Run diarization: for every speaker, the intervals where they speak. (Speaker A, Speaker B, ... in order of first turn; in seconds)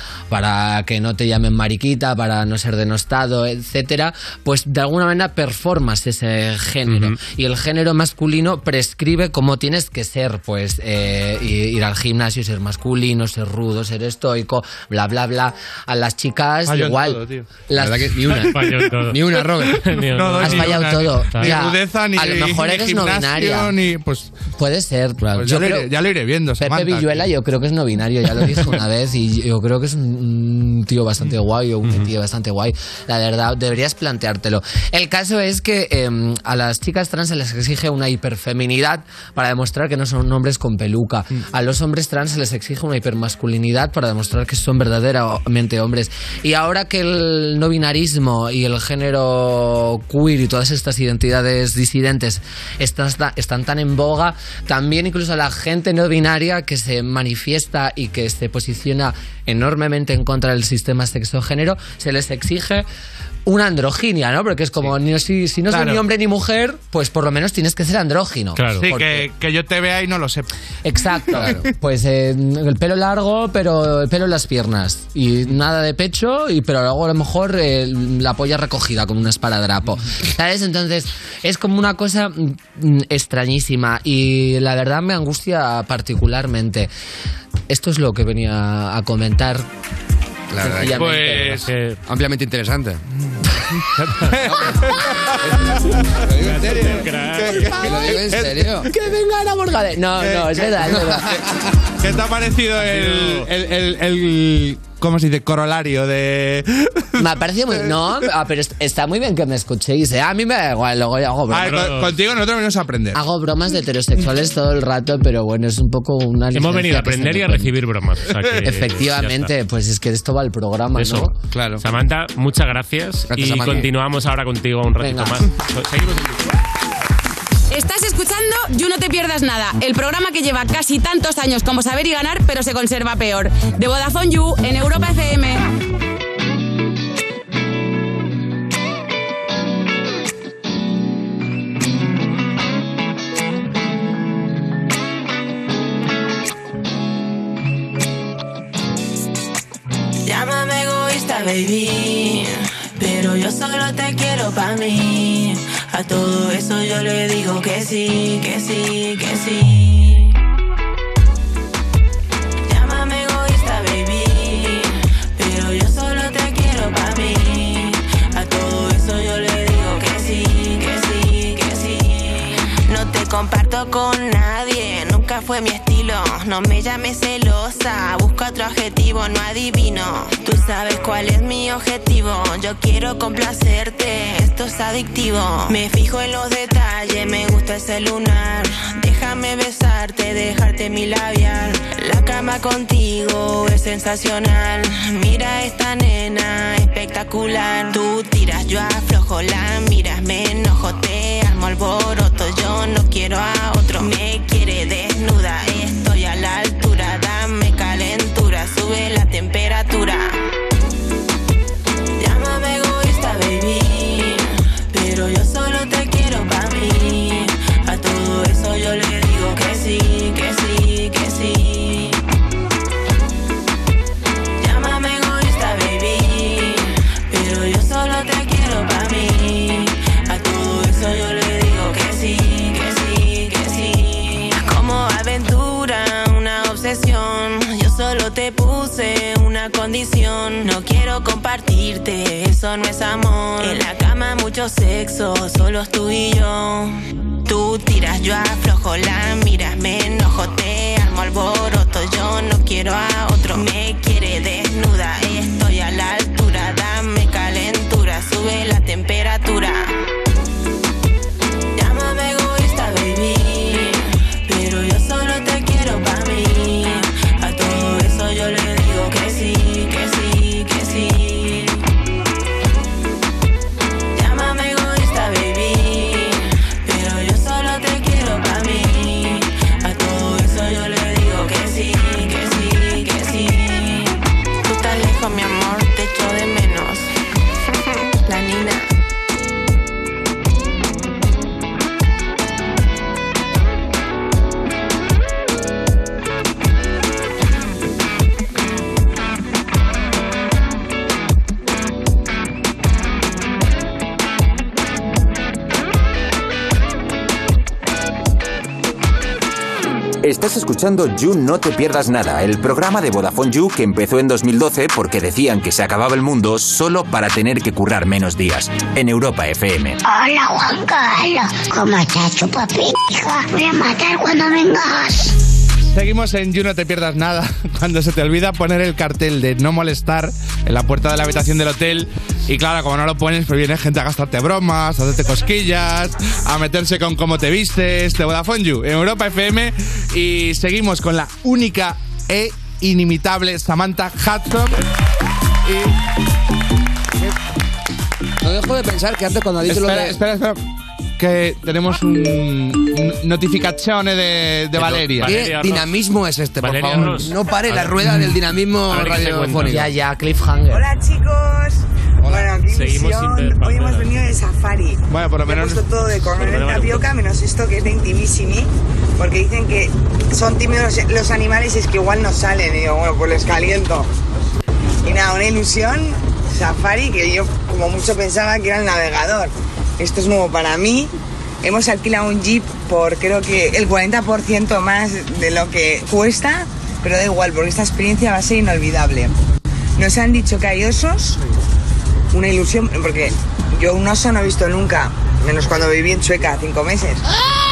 Speaker A: 0.3-18.4, 20.4-23.7, 24.6-25.9, 26.6-62.9, 63.5-69.3, 70.8-86.9, 87.7-89.7, 90.6-91.6, 98.9-101.4, 107.2-111.7, 113.1-117.7, 118.7-121.3, 125.0-125.4, 359.6-360.9
Speaker B: 6.8-7.2, 18.5-21.6, 68.5-68.9, 91.6-92.0, 94.0-94.4, 96.4-98.1, 102.8-103.5, 111.6-112.1, 116.5-119.5, 120.9-126.4, 355.2-355.9, 356.6-357.9, 358.9-359.8, 362.7-364.1, 366.3-367.1
Speaker C: 16.6-17.5, 19.6-24.4, 25.3-27.3, 65.7-66.0, 68.8-70.5, 71.1-71.7, 90.8-91.7, 94.3-98.8, 100.2-101.4, 102.0-108.1, 111.5-113.2, 118.3-118.6, 325.9-344.8, 345.6-345.9, 349.7-350.6, 351.2-355.4, 365.1-365.9
Speaker D: 17.8-19.8, 90.5-91.1, 92.0-93.0, 97.7-98.9, 121.5-121.8, 123.3-123.9, 348.4-350.2, 354.8-359.9
Speaker E: 127.7-135.6
Speaker F: 150.2-160.3, 162.7-210.4, 212.2-222.2, 224.6-259.9, 261.7-271.8, 274.1-287.1, 288.2-288.9
Speaker G: 310.2-320.0
Speaker H: 320.0-325.3
Speaker I: 360.7-374.1, 375.0-381.1, 381.6-389.3, 390.0-391.4, 392.3-397.2